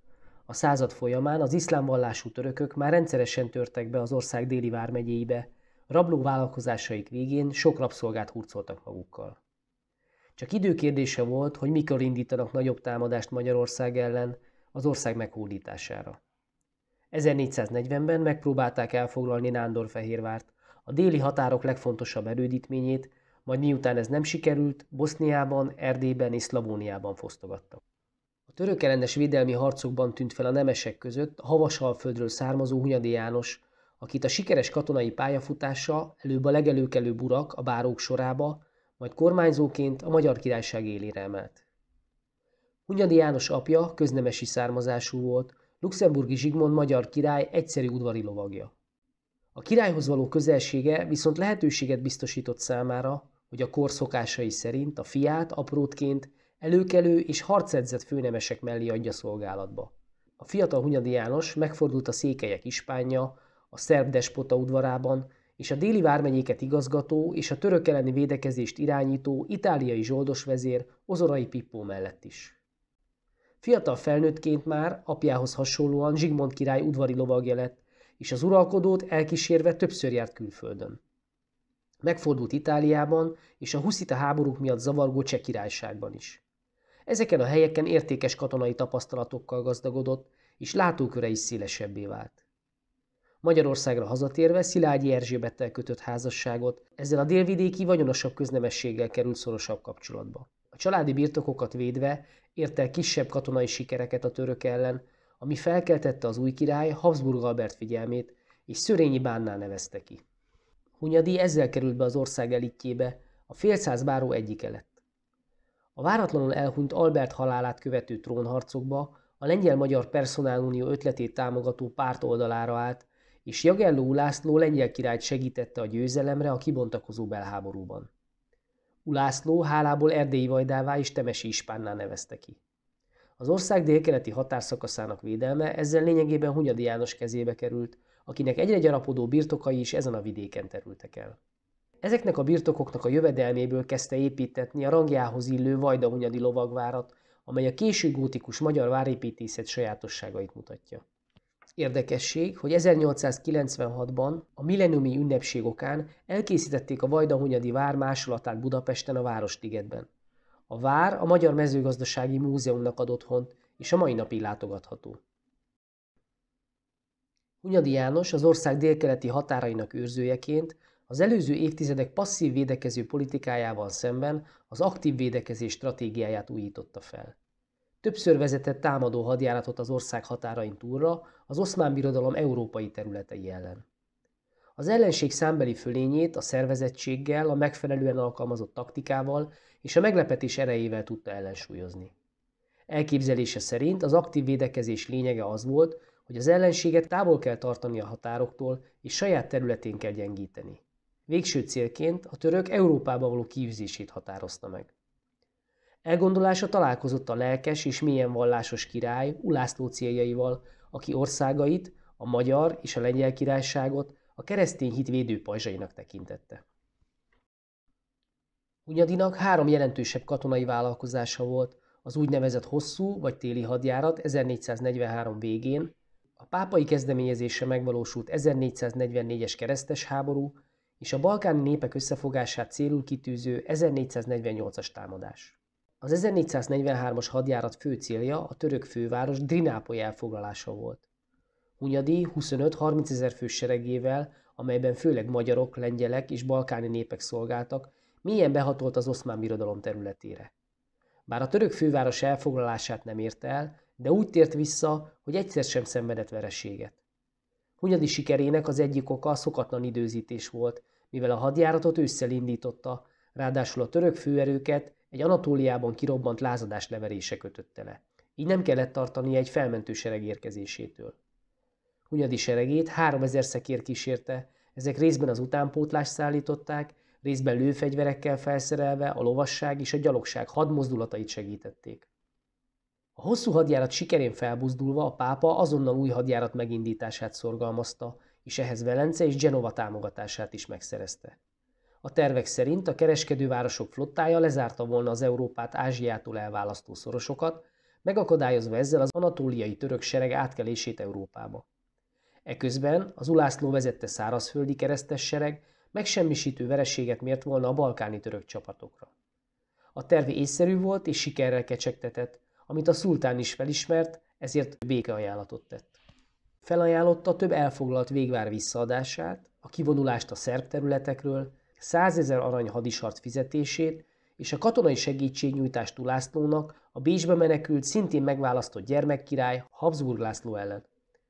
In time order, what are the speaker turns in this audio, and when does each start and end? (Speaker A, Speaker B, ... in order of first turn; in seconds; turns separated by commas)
Speaker A: 0.5-9.4, Speaker A: 10.4-16.2, Speaker A: 17.1-27.8, Speaker A: 28.5-41.6, Speaker A: 42.9-48.7, Speaker A: 49.5-72.6, Speaker A: 73.6-81.0, Speaker A: 82.0-86.4, Speaker A: 87.1-92.4, Speaker A: 93.4-110.2, Speaker A: 111.0-115.0, Speaker A: 116.0-128.1, Speaker A: 129.1-132.6, Speaker A: 133.4-141.4, Speaker A: 142.0-151.0, Speaker A: 151.8-160.1, Speaker A: 160.7-165.2, Speaker A: 167.6-177.3, Speaker A: 178.0-183.8, Speaker A: 184.8-192.1, Speaker A: 192.9-204.9, Speaker A: 206.0-216.6, Speaker A: 218.8-241.0, Speaker A: 241.8-250.5, Speaker A: 251.3-257.0, Speaker A: 257.8-271.2, Speaker A: 272.1-282.1, Speaker A: 283.2-291.4, Speaker A: 292.0-301.7, Speaker A: 302.4-309.1, Speaker A: 309.9-316.0, Speaker A: 316.6-330.9